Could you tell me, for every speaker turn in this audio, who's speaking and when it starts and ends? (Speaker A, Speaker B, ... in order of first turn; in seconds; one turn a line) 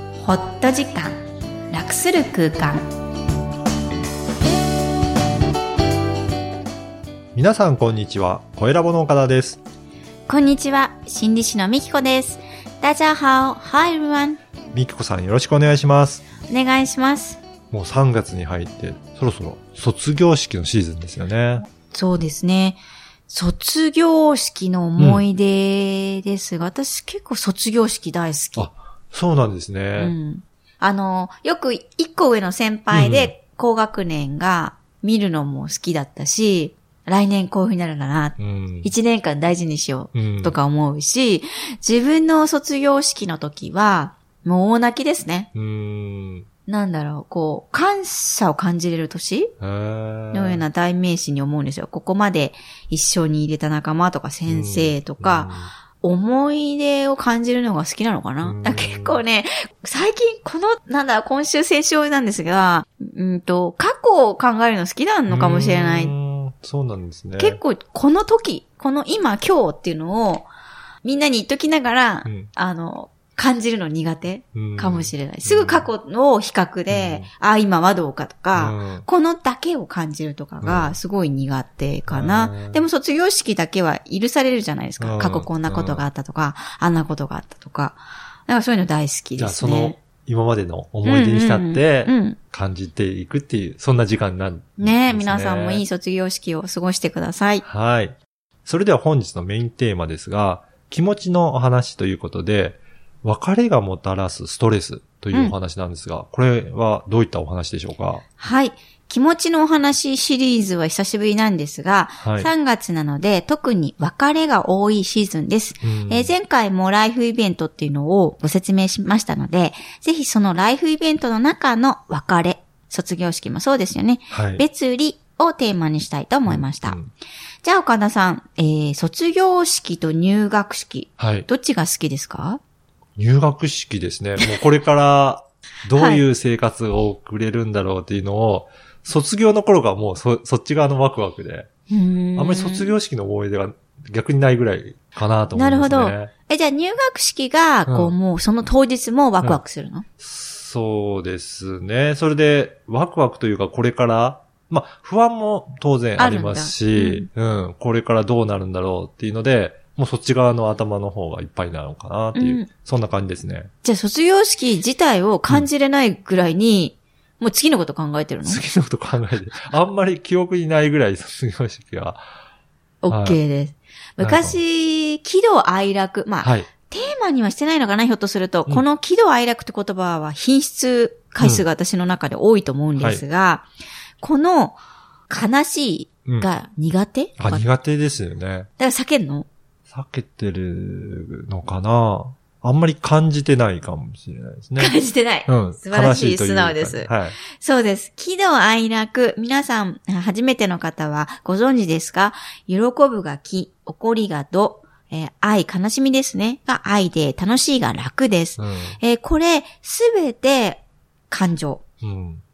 Speaker A: 0.2-2.9
Speaker B: 7.3-9.6
Speaker A: 10.3-14.4
Speaker B: 14.7-16.2
Speaker A: 16.5-17.4
Speaker B: 17.7-21.6
Speaker A: 21.9-28.7
Speaker B: 25.0-25.2
Speaker B: 28.6-30.1
Speaker A: 30.0-45.5
Speaker B: 32.9-33.3
Speaker B: 38.4-38.9
Speaker B: 40.1-40.5
Speaker B: 45.5-46.5
Speaker A: 46.6-49.5
Speaker B: 49.6-50.6
Speaker A: 50.3-66.1
Speaker B: 54.5-55.7
Speaker B: 58.4-59.2
Speaker B: 65.3-67.6
Speaker A: 67.4-70.5
Speaker A: 71.0-90.0
Speaker B: 74.5-75.9
Speaker B: 76.9-77.2
Speaker B: 78.5-79.0
Speaker B: 80.6-81.0
Speaker B: 82.1-82.8
Speaker B: 85.0-86.0
Speaker B: 89.4-95.8
Speaker A: 91.0-92.4
Speaker A: 94.8-97.6
Speaker B: 97.6-98.1
Speaker B: 98.7-108.2
Speaker A: 108.4-127.0
Speaker B: 112.2-112.5
Speaker B: 115.8-116.3
Speaker B: 124.3-124.6
Speaker B: 126.5-127.1
Speaker A: 127.6-132.6
Speaker B: 131.2-131.5
Speaker B: 133.2-141.7
Speaker A: 135.9-136.2
Speaker A: 141.9-142.9
Speaker B: 142.3-146.3
Speaker A: 145.5-150.0
Speaker B: 147.9-148.1
Speaker B: 150.2-163.7
Speaker A: 156.2-157.3
Speaker A: 162.3-162.7
Speaker A: 163.8-168.6
Speaker B: 168.4-172.2
Speaker A: 173.0-183.7
Speaker B: 173.1-173.4
Speaker B: 174.2-174.6
Speaker B: 176.4-176.7
Speaker B: 181.4-181.6
Speaker B: 182.9-183.2
Speaker A: 184.2-184.8
Speaker A: 185.3-187.7
Speaker B: 187.4-188.7
Speaker A: 188.8-189.5
Speaker B: 189.9-197.4
Speaker A: 194.8-211.8
Speaker B: 208.6-209.0
Speaker B: 212.0-212.4